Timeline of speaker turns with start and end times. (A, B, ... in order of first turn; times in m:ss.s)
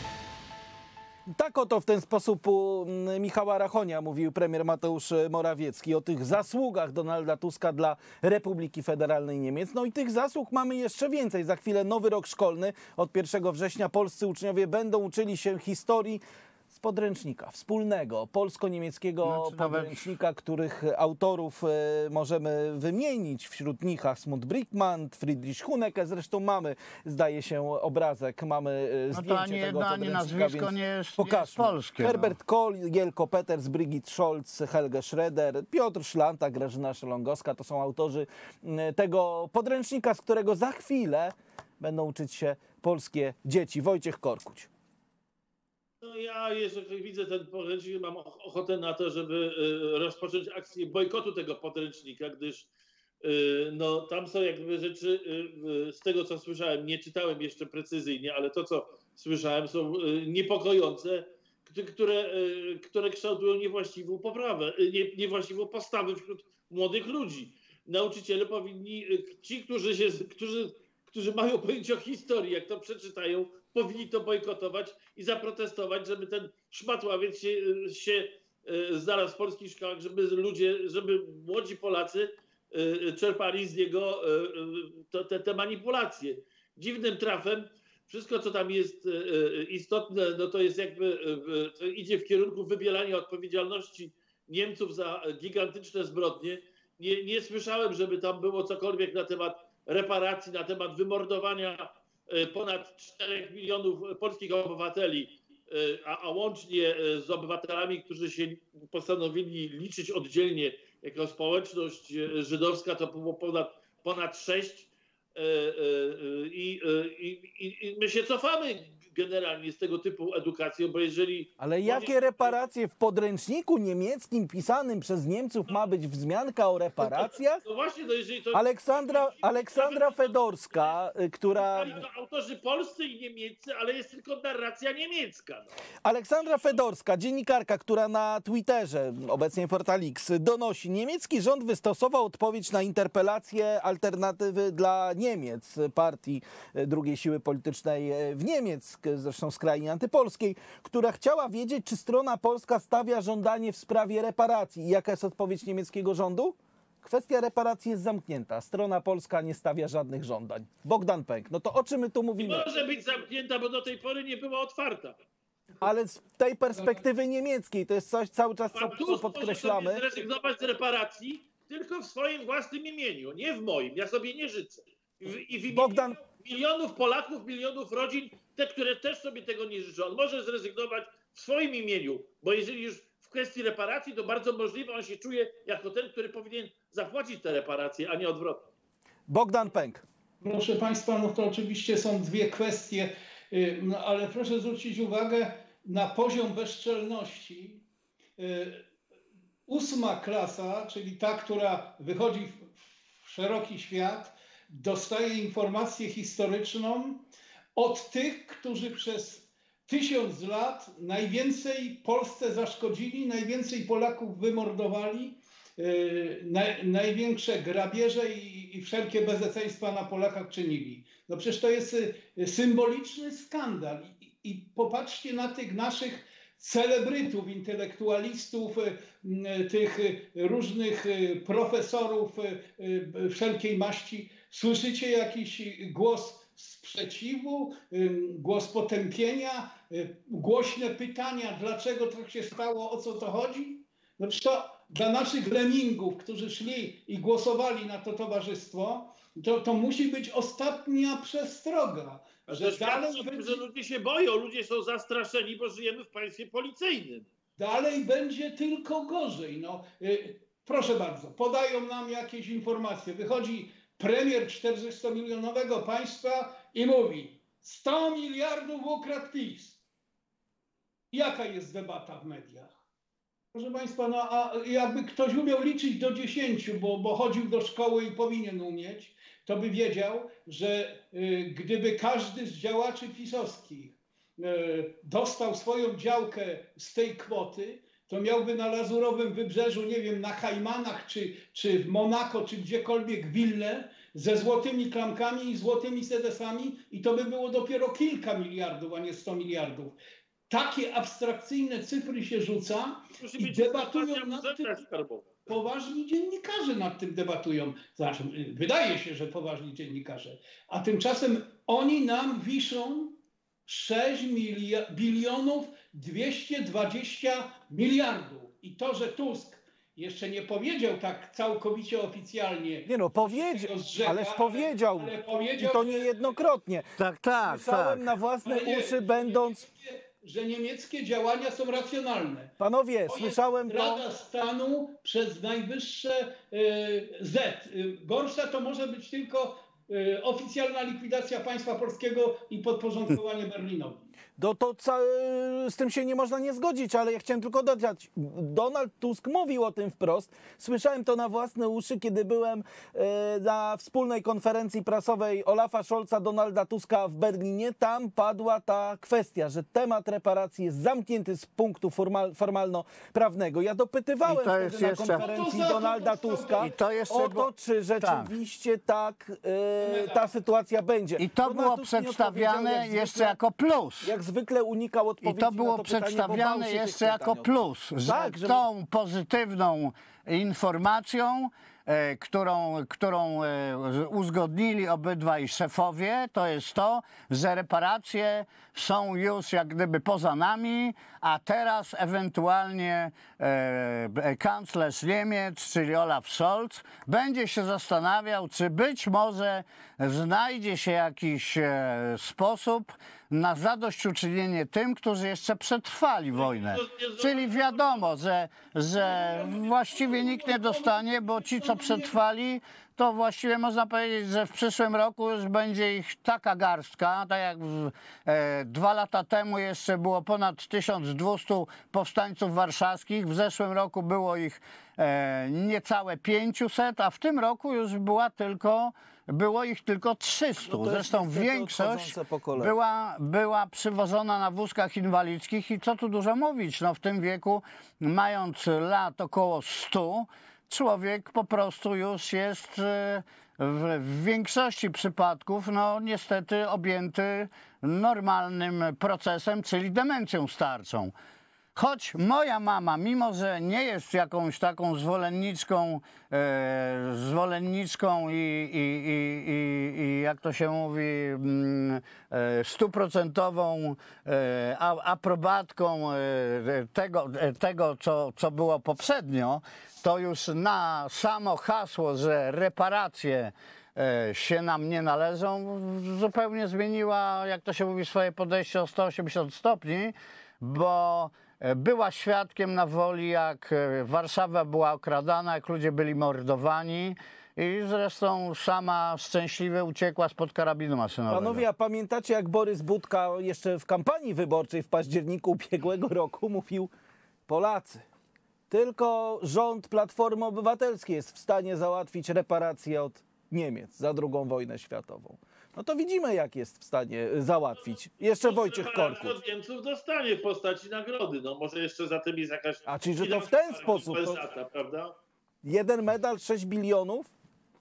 0:01.3-0:44.7 A
0:19.2-0:20.0 B
0:29.1-0:32.4 B
0:46.0-0:52.7 C
0:53.2-2:02.6 C
2:01.6-2:07.6 A
2:07.0-2:11.0 C
2:08.5-2:12.0 A
2:11.5-2:15.7 C
2:16.0-2:42.7 A
2:42.4-2:45.2 C
2:45.8-2:50.0 A
2:48.7-3:08.7 C
2:55.7-2:56.2 A
3:09.3-3:10.0 A
3:10.4-3:17.8 D
3:18.4-3:18.8 D
3:19.7-4:13.6 D
4:12.5-4:17.3 C
4:17.6-4:29.8 D
4:31.1-4:32.7 D
4:33.5-5:00.0 D
5:00.5-5:04.8 D
5:03.2-5:05.4 C
5:05.4-5:26.1 D
5:22.8-5:29.7 A
5:27.0-5:28.0 B
5:28.4-5:32.6 D
5:32.6-5:34.0 A
5:33.1-5:44.1 D
5:44.4-6:13.4 A
6:04.2-6:05.3 B
6:05.2-6:06.7 D
6:06.6-6:08.3 B
6:09.8-6:10.3 D
6:11.2-6:14.1 B
6:14.0-6:18.6 A
6:15.2-7:31.1 B
6:46.4-6:48.0 C
6:49.0-6:52.2 D
7:10.6-7:12.7 A
7:31.7-8:11.6 B
8:11.3-8:16.9 A
8:17.5-8:18.0 A
8:18.7-8:29.3 A
8:28.4-8:35.1 C
8:32.9-8:34.4 A
8:35.6-8:37.3 A